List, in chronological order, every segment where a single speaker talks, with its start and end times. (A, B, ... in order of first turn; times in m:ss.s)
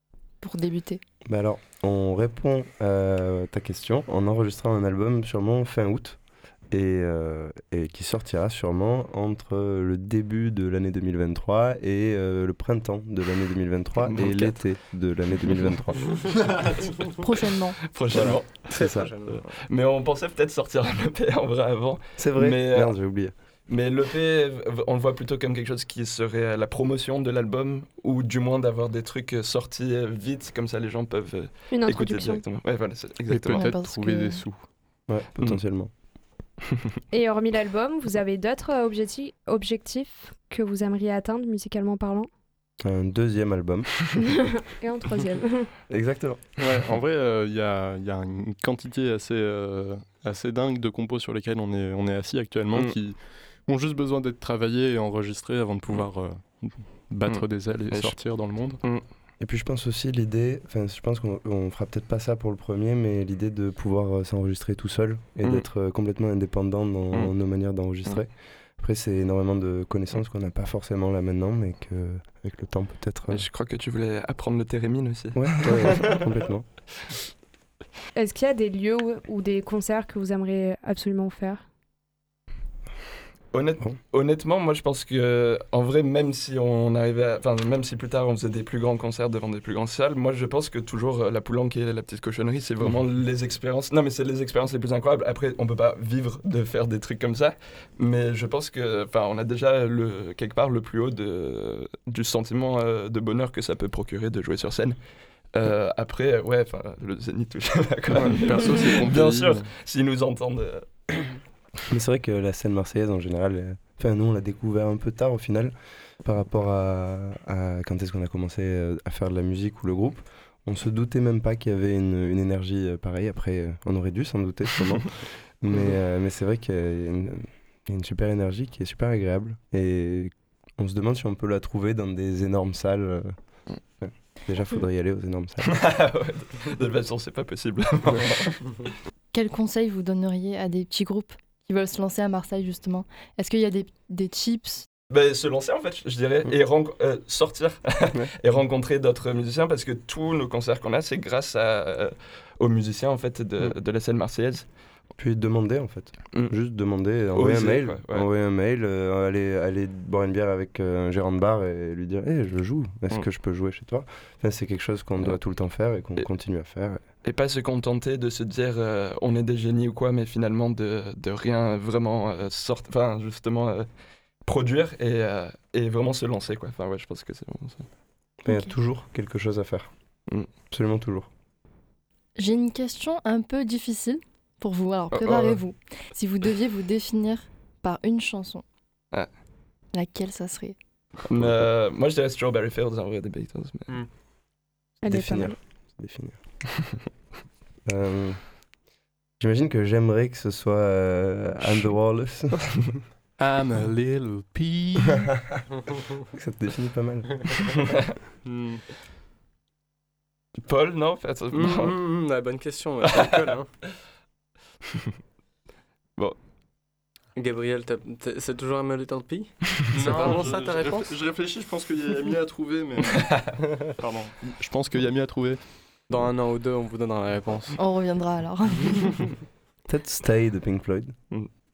0:00.4-0:01.0 A
0:01.2-0:16.2 B
0:14.1-0:14.8 C
0:17.2-0:17.9 A
0:17.9-0:33.7 C
0:18.1-0:19.1 B
0:18.1-0:19.5 D
0:22.2-0:23.3 B
0:31.7-0:32.4 E
0:33.3-0:34.7 F
0:33.5-0:34.4 A
0:35.1-0:35.9 B
0:37.1-0:42.3 E
0:42.8-0:44.1 B
0:44.7-0:45.7 E
0:45.9-0:46.5 B
0:46.6-0:58.8 F
0:57.3-0:59.0 C
0:59.4-1:13.4 B
1:13.3-1:16.2 C
1:15.3-1:16.8 B
1:18.1-1:21.6 E
1:23.5-1:45.0 C
1:45.5-1:51.3 C
1:48.1-1:49.7 F
1:51.9-2:16.0 B
2:15.6-2:18.9 C
2:19.3-2:24.8 A
2:25.1-2:34.7 C
2:35.2-2:47.0 B
2:36.3-2:36.6 C
2:37.3-2:38.3 C
2:47.2-2:53.9 C
2:54.4-2:57.9 C
2:58.4-2:59.9 B
2:58.5-2:58.7 A
3:00.6-3:01.3 B
3:02.4-3:08.6 A
3:05.1-3:05.6 C
3:09.9-3:10.8 A
3:11.2-3:14.0 C
3:15.0-3:16.4 B
3:15.0-3:15.6 E
3:17.8-3:18.7 B
3:19.4-3:22.8 B
3:23.4-3:25.5 F
3:26.3-3:27.6 B
3:28.4-3:28.8 F
3:30.6-3:31.9 C
3:31.5-3:33.7 D
3:33.1-3:33.5 C
3:37.4-3:41.2 D
3:39.9-3:46.1 F
3:40.0-3:40.5 C
3:46.1-3:47.8 D
3:47.8-3:49.3 A
3:49.8-3:51.2 B